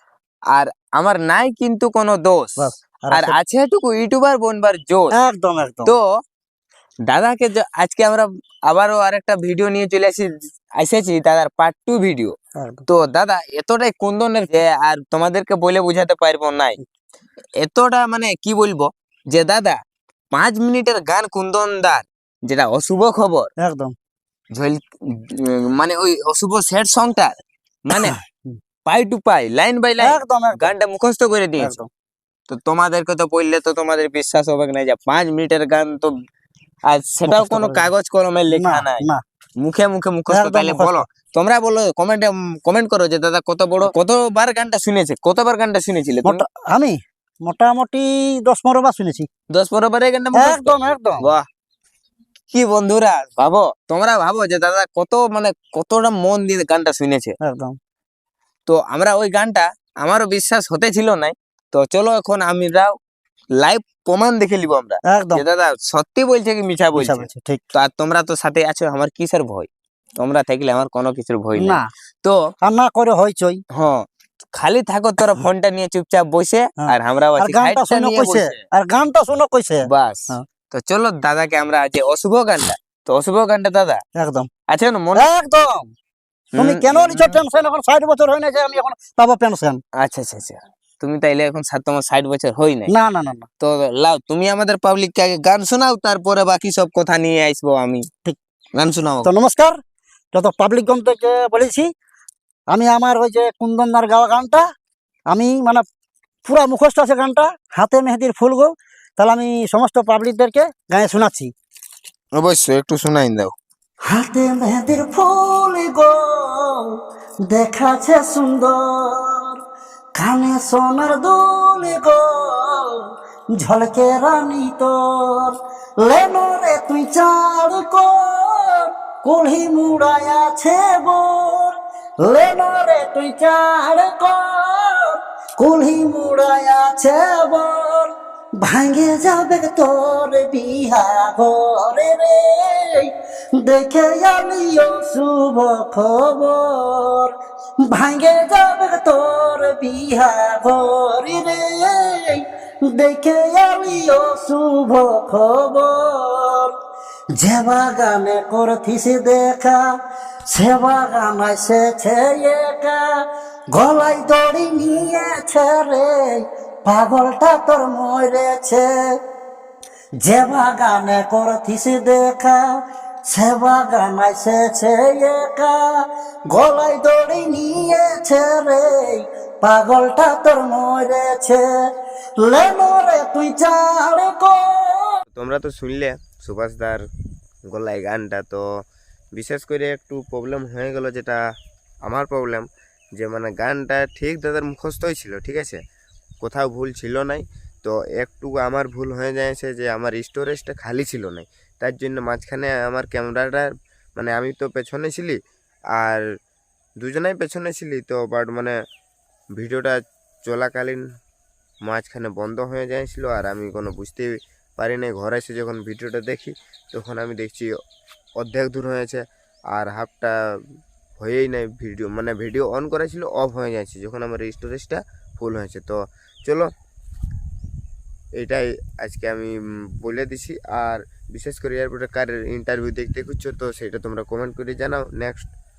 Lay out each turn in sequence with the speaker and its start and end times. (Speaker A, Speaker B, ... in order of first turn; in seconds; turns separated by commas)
Speaker A: 0.5-5.1, Speaker B: 2.6-3.4, Speaker B: 5.2-5.9, Speaker A: 7.1-12.3, Speaker B: 12.6-12.8, Speaker A: 12.9-16.8, Speaker A: 17.6-19.8, Speaker A: 20.3-23.5, Speaker B: 23.6-23.9, Speaker A: 24.6-27.3, Speaker A: 27.9-28.2, Speaker B: 28.0-28.6, Speaker A: 28.9-31.7, Speaker B: 30.0-30.7, Speaker B: 31.6-31.9, Speaker A: 32.5-36.1, Speaker A: 36.9-39.0, Speaker B: 37.3-37.8, Speaker B: 38.5-39.2, Speaker A: 39.6-46.4, Speaker B: 40.3-41.1, Speaker B: 46.2-49.3, Speaker A: 49.5-51.4, Speaker B: 50.3-51.2, Speaker A: 52.5-57.4, Speaker B: 57.4-57.8, Speaker A: 58.7-62.9, Speaker A: 63.6-72.4, Speaker B: 65.1-65.4, Speaker B: 66.9-67.6, Speaker B: 71.6-71.9, Speaker B: 72.6-73.6, Speaker A: 73.7-78.6, Speaker B: 76.8-80.4, Speaker A: 79.9-84.0, Speaker B: 84.2-84.5, Speaker A: 84.7-85.3, Speaker B: 85.2-85.9, Speaker A: 86.5-87.4, Speaker B: 86.6-89.8, Speaker A: 90.0-92.9, Speaker B: 92.9-93.5, Speaker A: 93.6-98.1, Speaker A: 98.8-99.3, Speaker B: 99.2-99.8, Speaker B: 100.3-101.9, Speaker B: 102.7-104.6, Speaker B: 105.3-105.8, Speaker B: 106.4-111.5, Speaker A: 112.3-113.5, Speaker B: 114.1-116.8, Speaker B: 117.5-119.5, Speaker B: 120.2-122.8, Speaker B: 123.6-131.7, Speaker B: 132.2-138.1, Speaker B: 138.6-143.1, Speaker B: 143.6-147.3, Speaker B: 147.9-156.7, Speaker B: 157.3-159.8, Speaker B: 160.5-163.0, Speaker B: 163.7-168.9, Speaker B: 170.2-172.6, Speaker B: 173.3-175.8, Speaker B: 176.5-181.7, Speaker B: 182.4-185.2, Speaker C: 185.3-187.0, Speaker C: 187.7-188.6, Speaker C: 189.3-191.4, Speaker C: 192.0-195.8, Speaker C: 196.4-205.4, Speaker C: 206.0-206.2, Speaker C: 207.0-208.8, Speaker C: 209.6-211.0, Speaker C: 211.8-217.8, Speaker C: 218.4-220.3, Speaker C: 221.2-226.7, Speaker C: 228.4-235.5